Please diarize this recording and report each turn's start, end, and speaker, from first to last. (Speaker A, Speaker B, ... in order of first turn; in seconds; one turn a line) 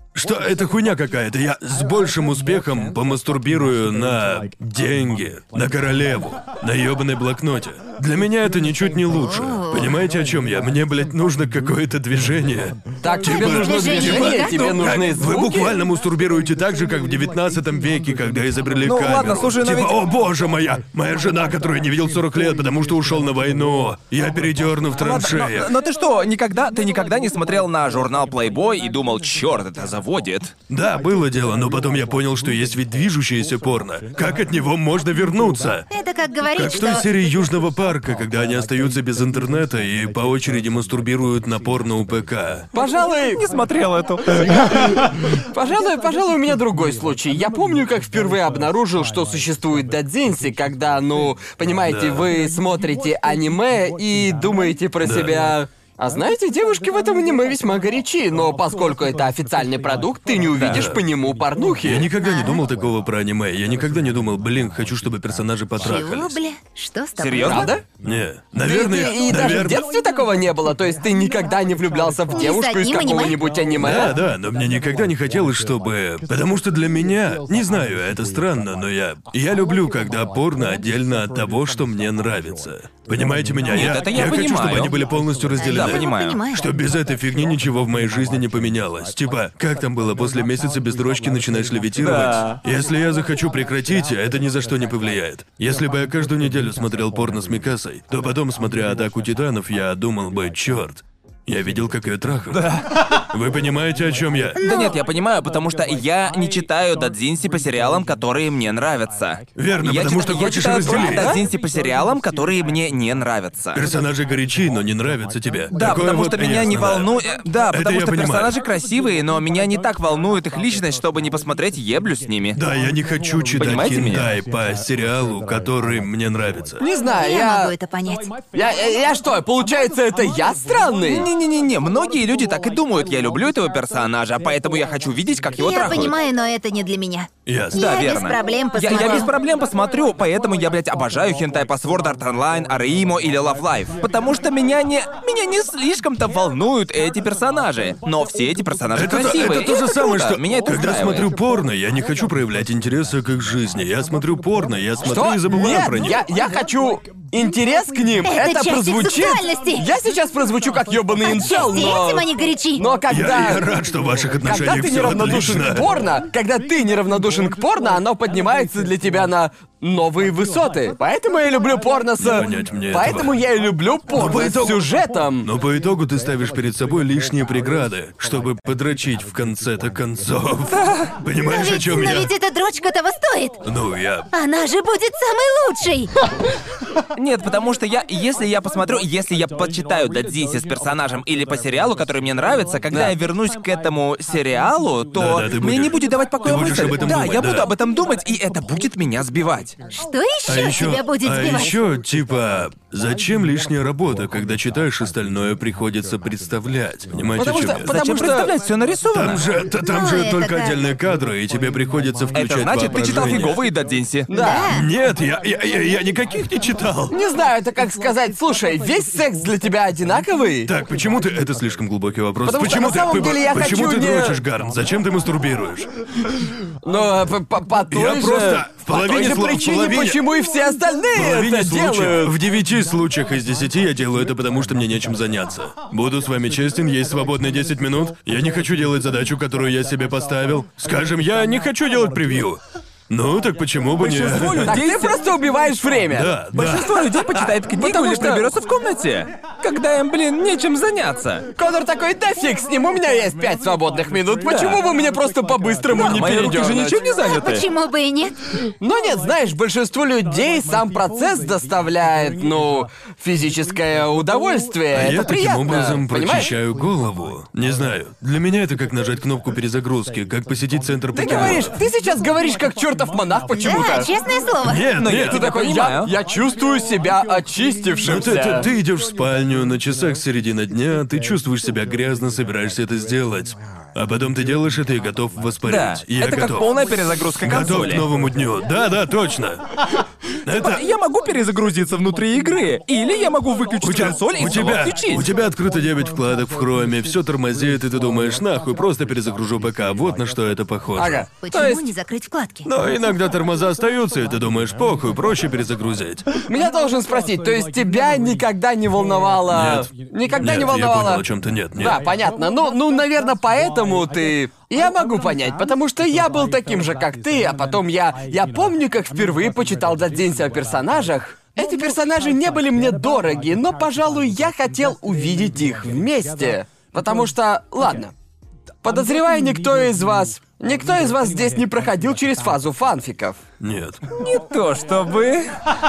Speaker A: 0.1-25.8
Speaker B: 9.1-10.0
Speaker C: 13.0-15.7
Speaker B: 13.2-14.7
Speaker D: 18.9-20.0
Speaker D: 25.0-30.5
Speaker A: 30.7-35.9
Speaker B: 35.9-37.1
Speaker A: 36.6-42.7
Speaker C: 42.7-43.4
Speaker D: 43.3-44.5
Speaker C: 45.5-62.1
Speaker A: 51.9-52.3
Speaker A: 55.0-55.4
Speaker D: 60.5-60.8
Speaker A: 60.6-61.0
Speaker A: 61.8-66.4
Speaker B: 62.2-62.6
Speaker B: 65.8-67.7
Speaker D: 67.2-67.7
Speaker C: 67.5-67.8
Speaker A: 68.0-69.9
Speaker C: 68.6-74.2
Speaker B: 72.3-73.4
Speaker A: 73.8-104.6
Speaker D: 83.7-84.9
Speaker B: 85.6-86.6
Speaker D: 85.6-86.4
Speaker D: 92.0-92.6
Speaker D: 102.5-103.1
Speaker B: 104.6-105.0
Speaker D: 104.6-113.9
Speaker A: 109.6-111.4
Speaker C: 110.8-111.4
Speaker A: 113.7-117.1
Speaker D: 115.7-122.6
Speaker A: 117.7-118.5
Speaker A: 122.5-126.8
Speaker D: 123.6-124.3
Speaker C: 126.8-127.7
Speaker B: 127.2-128.3
Speaker C: 128.5-131.3
Speaker D: 131.1-136.2
Speaker B: 135.6-139.3
Speaker A: 137.5-137.9
Speaker D: 137.7-151.3
Speaker A: 148.9-156.2
Speaker C: 155.0-163.7
Speaker B: 158.2-159.9
Speaker B: 161.2-162.8
Speaker A: 163.1-165.9
Speaker C: 164.4-175.5
Speaker A: 172.2-173.4
Speaker A: 174.1-174.9
Speaker A: 175.4-182.3
Speaker D: 180.7-181.1
Speaker B: 181.5-183.6
Speaker A: 183.6-184.3
Speaker B: 184.3-186.1
Speaker D: 187.2-199.8
Speaker A: 195.2-197.7
Speaker B: 200.0-201.7
Speaker A: 200.5-207.9
Speaker C: 207.4-208.5
Speaker D: 207.8-209.4
Speaker A: 209.1-213.6
Speaker B: 209.8-210.8
Speaker D: 212.3-214.3
Speaker C: 214.3-214.7
Speaker B: 214.3-214.9
Speaker A: 214.7-217.2
Speaker C: 217.1-220.7
Speaker A: 220.7-225.9
Speaker C: 222.5-224.4
Speaker C: 226.8-232.4
Speaker A: 227.9-230.2
Speaker A: 231.1-244.8
Speaker D: 244.0-245.2
Speaker C: 244.6-246.3
Speaker A: 246.1-247.6
Speaker D: 246.5-251.4
Speaker C: 247.7-248.5
Speaker C: 251.6-257.0
Speaker D: 254.4-254.8
Speaker D: 255.9-257.7
Speaker B: 257.1-258.3
Speaker C: 258.8-266.5
Speaker A: 264.9-271.7
Speaker C: 271.2-274.1
Speaker D: 271.3-271.6
Speaker B: 273.6-274.9
Speaker A: 274.6-275.4
Speaker D: 275.0-276.1
Speaker C: 275.2-278.7
Speaker A: 278.0-286.7
Speaker D: 278.1-278.7
Speaker D: 285.7-288.1
Speaker A: 287.4-289.7
Speaker A: 290.4-290.9
Speaker D: 290.5-295.3
Speaker A: 293.8-301.3
Speaker C: 301.0-301.9
Speaker B: 301.4-302.7
Speaker A: 302.6-306.3
Speaker C: 306.5-311.2
Speaker A: 309.5-312.0
Speaker C: 311.8-328.1
Speaker C: 328.8-333.4
Speaker A: 333.6-334.0
Speaker D: 334.1-335.5